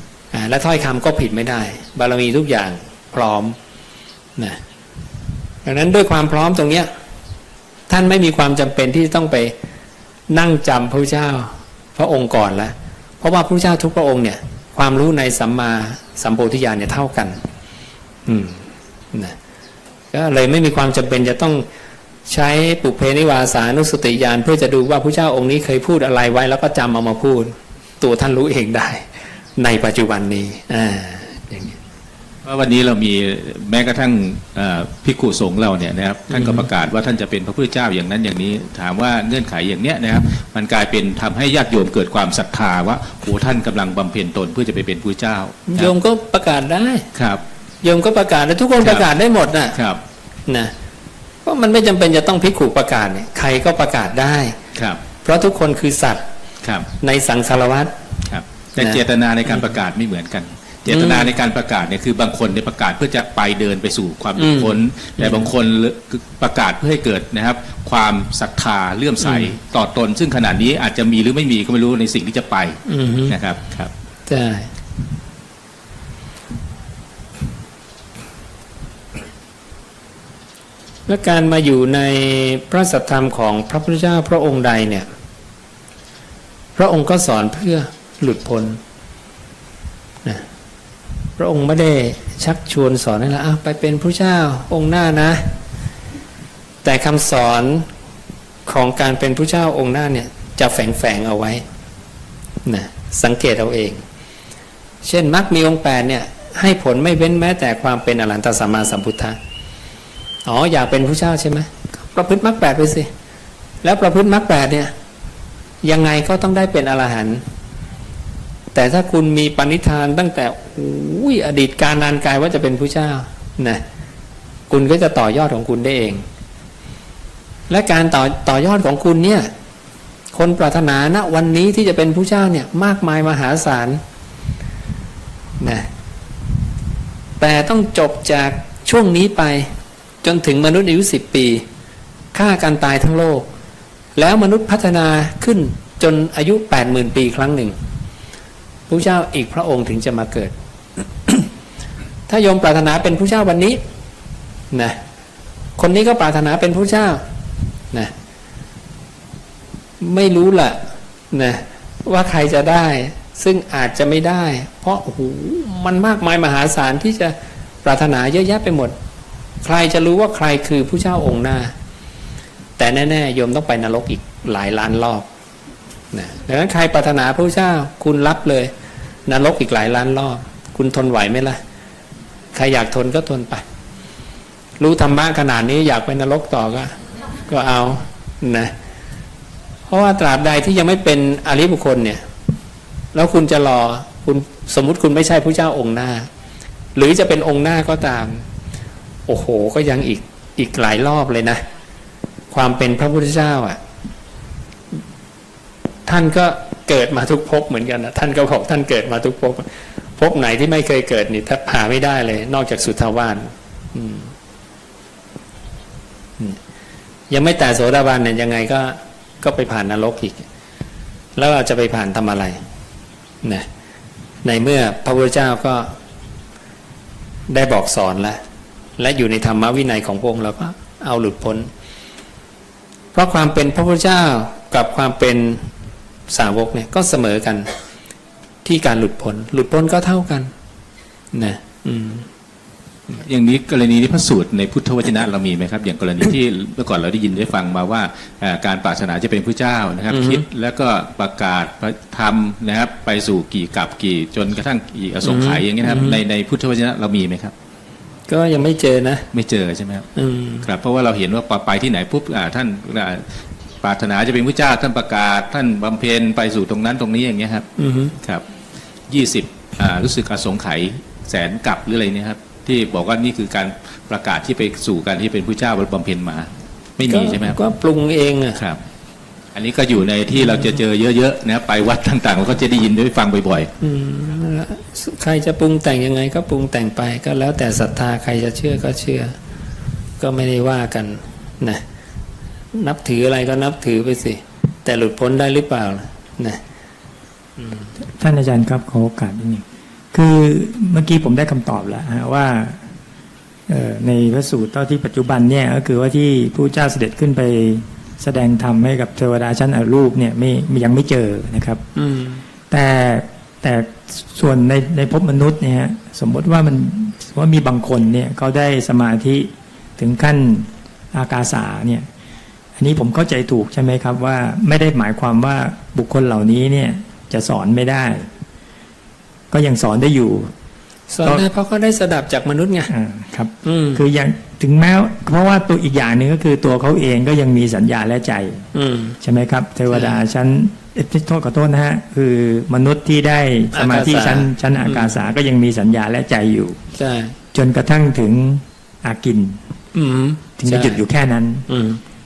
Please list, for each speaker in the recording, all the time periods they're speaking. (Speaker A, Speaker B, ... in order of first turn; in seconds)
Speaker A: 0.3-3.5, 5.6-6.9, 7.9-9.5, 10.3-17.4, 18.2-19.4, 20.1-21.6, 22.3-31.8, 36.3-36.7, 45.7-47.1, 47.8-49.8, 50.5-50.7, 51.4-54.5, 55.2-56.2, 57.0-57.9, 58.8-59.7, 60.9-61.4, 64.4-65.5, 69.2-69.5, 72.8-73.4, 74.3-74.7, 81.1-85.1, 86.8-88.8, 91.4-95.6, 96.8-97.8, 98.7-101.6, 102.6-104.0, 105.0-109.4, 110.4-113.1, 113.8-114.9, 115.8-117.4, 118.7-123.8, 124.7-126.2, 127.7-129.5, 130.3-134.0, 135.6-135.9, 137.4-139.7, 140.2-141.6, 142.3-143.5, 144.2-147.7, 148.9-150.5, 152.3-153.8, 154.7-155.0, 155.8-157.2, 160.0-168.9, 169.6-171.7, 172.8-175.3, 176.1-178.7, 179.3-181.6, 182.5-183.6, 184.8-188.7, 189.9-192.2, 193.1-196.3, 196.9-198.4, 199.3-201.6, 202.5-203.8, 206.1-214.3, 217.3-220.4, 221.3-222.6, 224.4-225.9, 227.5-228.4, 229.0-231.7, 233.1-235.7, 236.3-237.7, 238.6-240.5, 241.3-242.2, 250.1-250.4, 255.2-256.2, 258.3-259.3, 260.1-260.7, 267.8-268.1, 277.0-278.6, 283.8-289.3, 290.2-291.8, 292.7-296.6, 311.9-312.4, 331.1-332.9, 333.6-334.0, 338.7-339.2, 339.9-340.2, 343.7-345.2, 346.9-347.3, 349.9-351.0, 351.7-352.0
Speaker B: 32.4-45.9, 47.1-47.4, 48.8-49.1, 49.7-50.0, 54.8-55.0, 58.3-73.9, 243.2-257.5, 259.3-260.1, 260.6-263.2, 263.8-267.6, 269.1-277.6, 279.5-283.7
Speaker C: 298.2-302.9, 303.7-311.8, 312.7-322.1, 322.8-328.3, 329.5-330.5, 332.9-338.7, 339.2-346.8, 347.5-349.6, 350.6-351.6